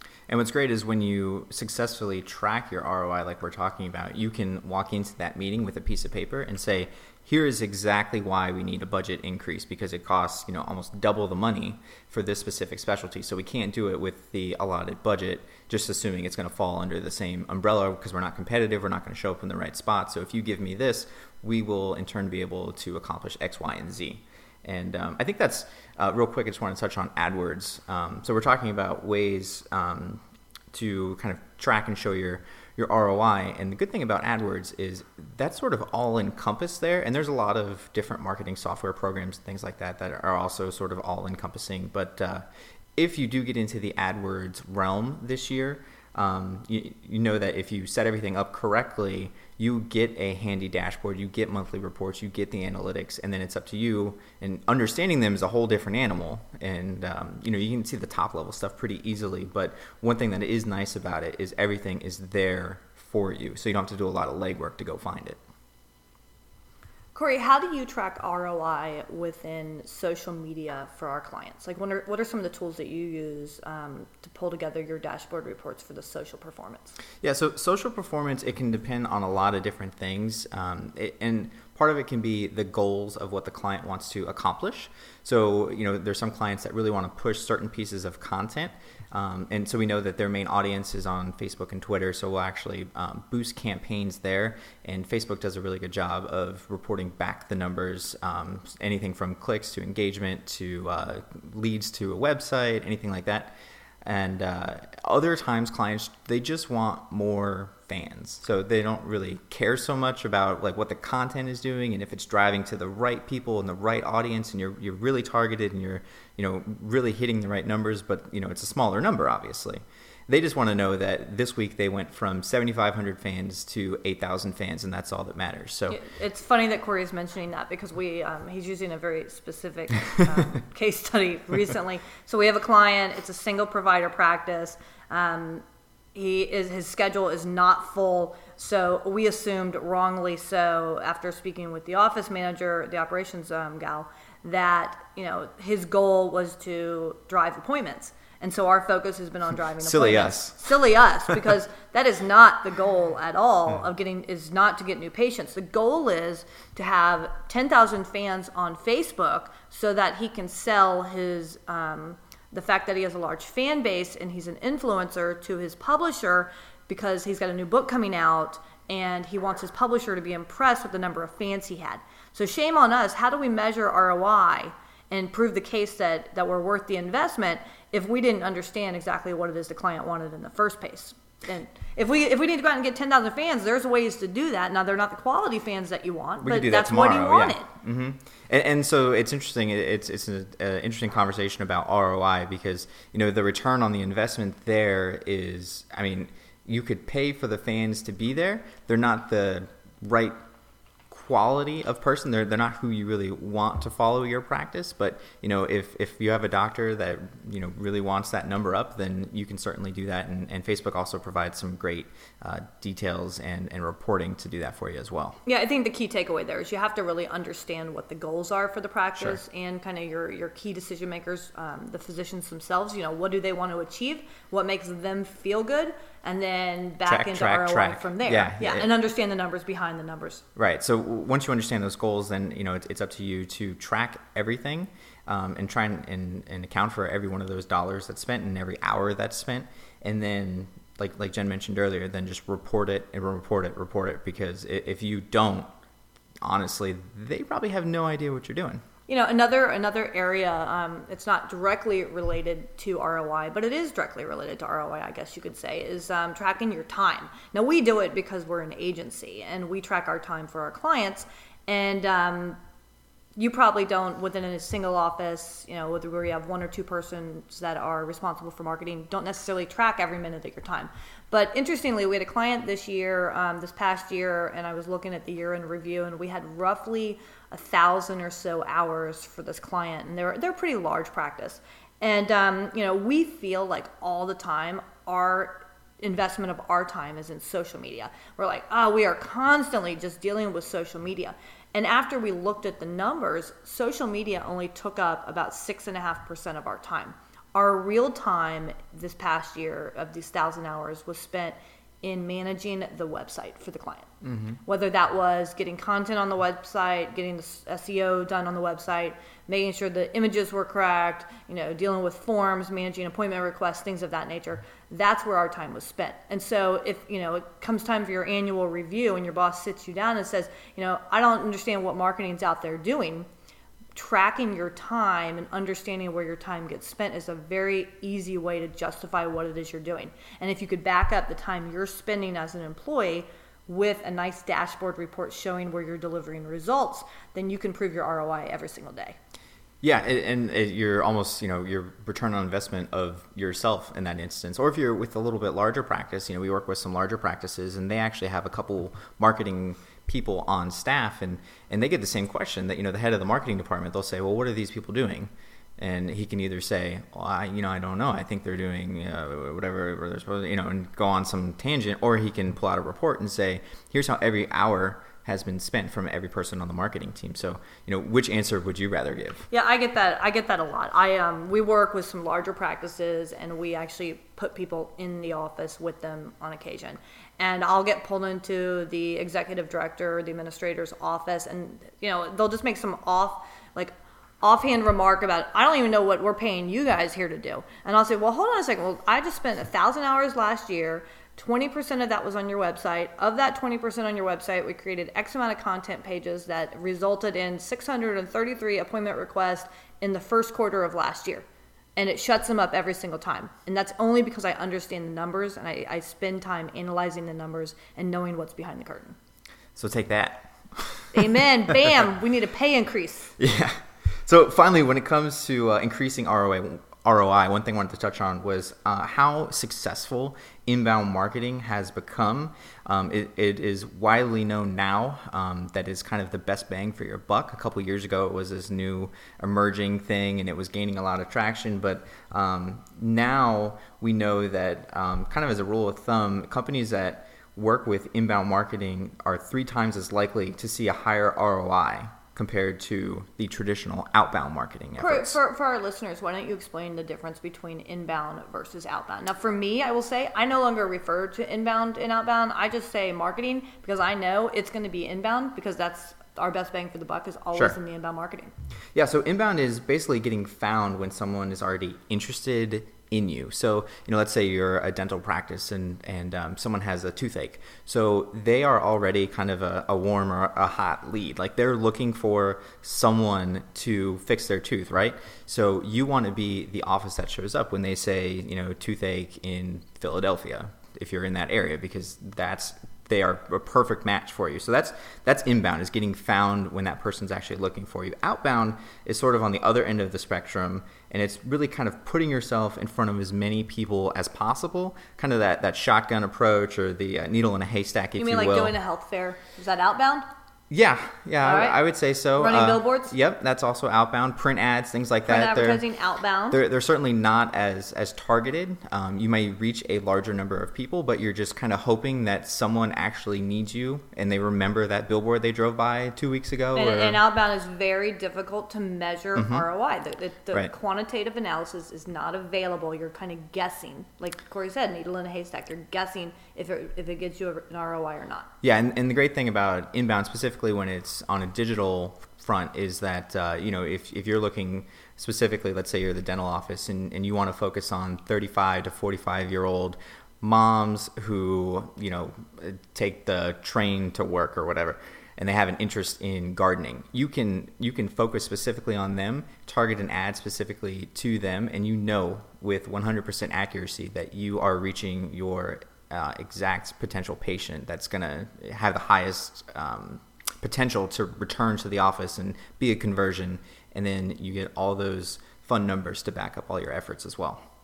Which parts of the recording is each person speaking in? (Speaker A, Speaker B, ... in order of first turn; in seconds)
Speaker A: 0.3-30.2, 30.7-42.5, 43.0-65.4, 77.2-126.0, 149.8-150.6, 186.4-200.4, 201.1-215.4, 227.1-228.9, 230.6-245.7, 246.4-248.8, 304.2-304.6, 339.8-369.5, 409.8-411.3, 413.4-445.4, 458.9-498.8, 500.7-505.8, 506.5-517.2, 519.4-519.7, 528.6-567.6
Speaker B: 67.1-77.0, 125.9-187.7, 215.4-230.4, 249.1-262.6, 263.4-304.1, 304.6-323.3, 323.9-339.2, 369.5-401.4, 402.0-409.2, 411.1-413.3, 445.0-458.5, 498.2-500.2, 501.4-501.8, 502.4-503.1, 505.2-506.6, 516.8-528.5